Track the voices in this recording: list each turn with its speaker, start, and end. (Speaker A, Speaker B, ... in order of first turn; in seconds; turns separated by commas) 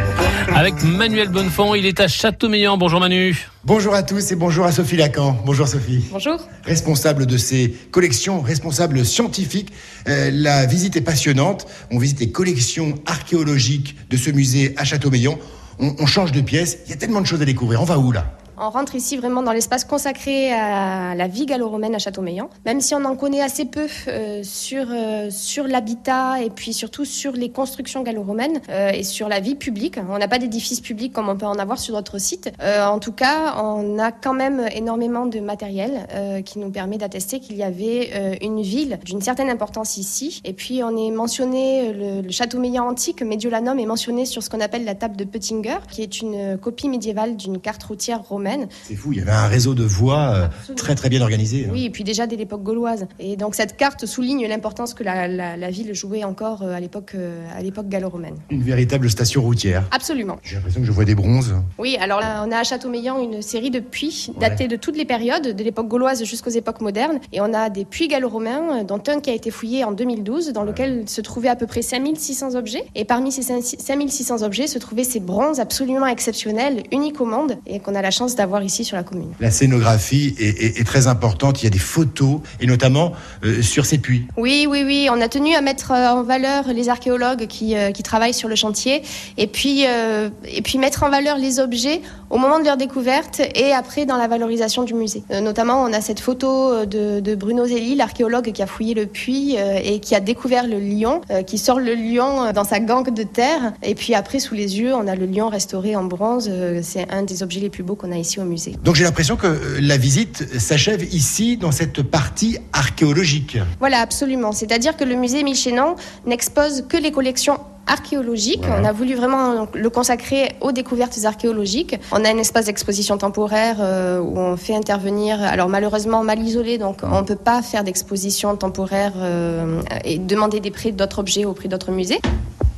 Speaker A: 0.5-3.5, Speaker B: 3.6-6.1, Speaker C: 6.1-6.5, Speaker B: 6.6-18.3, Speaker C: 18.6-48.7, Speaker B: 48.8-51.8, Speaker C: 50.5-50.9, Speaker C: 51.6-58.4, Speaker B: 58.5-59.9, Speaker C: 59.9-60.4, Speaker B: 60.4-61.6, Speaker C: 61.8-79.4, Speaker B: 79.4-84.3, Speaker C: 84.3-108.8, Speaker B: 108.8-113.7, Speaker C: 113.8-132.2